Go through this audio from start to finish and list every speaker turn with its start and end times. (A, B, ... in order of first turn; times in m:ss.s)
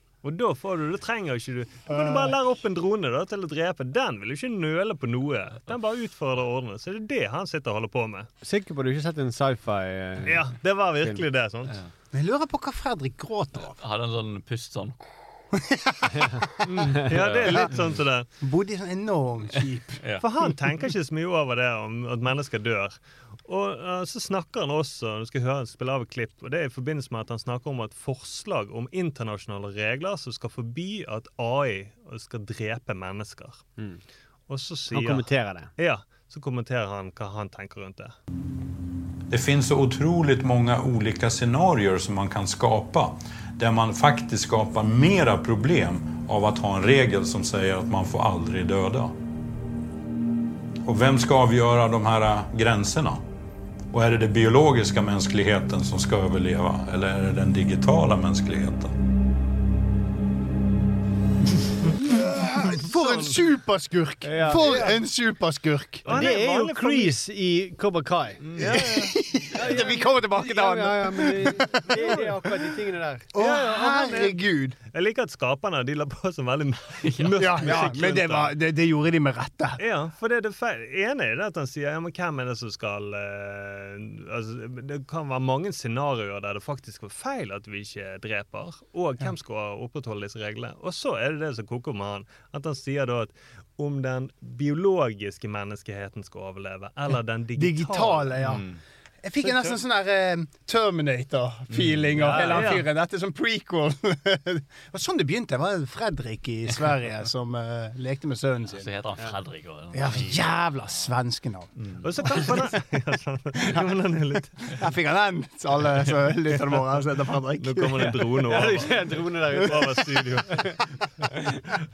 0:00.2-0:08.3 A
0:01.9-0:02.4 B
0:08.4-0:11.7 C
0:10.2-0:11.7 A
0:12.1-0:13.8 B
0:13.8-0:15.0 D
0:15.6-0:16.4 B
0:16.7-0:18.3 A
0:17.1-0:17.9 D
0:18.4-0:20.5 B
0:20.2-0:33.7 A
0:34.5-0:38.2 A
0:34.9-0:35.7 C
0:39.3-0:49.2 E
0:50.8-0:53.2 E
0:53.9-0:58.9 E
1:02.0-1:06.1 B
1:03.0-1:03.4 A
1:04.2-1:05.0 C
1:06.1-1:07.2 A
1:06.1-1:08.4 C
1:08.4-1:09.8 D
1:08.6-1:12.6 B
1:09.6-1:14.4 C
1:13.3-1:14.8 B
1:13.4-1:13.7 A
1:14.9-1:18.5 A
1:17.0-1:17.3 D
1:17.4-1:19.8 B
1:19.8-1:38.3 A
1:37.6-1:38.6 B
1:38.4-1:38.8 D
1:39.2-1:48.9 B
1:41.7-1:42.6 D
1:42.2-1:42.6 C
1:42.5-1:42.9 A
1:48.7-1:51.1 D
1:49.9-1:52.5 B
1:51.8-1:52.1 D
1:52.0-1:54.8 A
1:54.7-1:58.3 B
1:57.6-2:00.7 A
1:58.4-2:00.8 C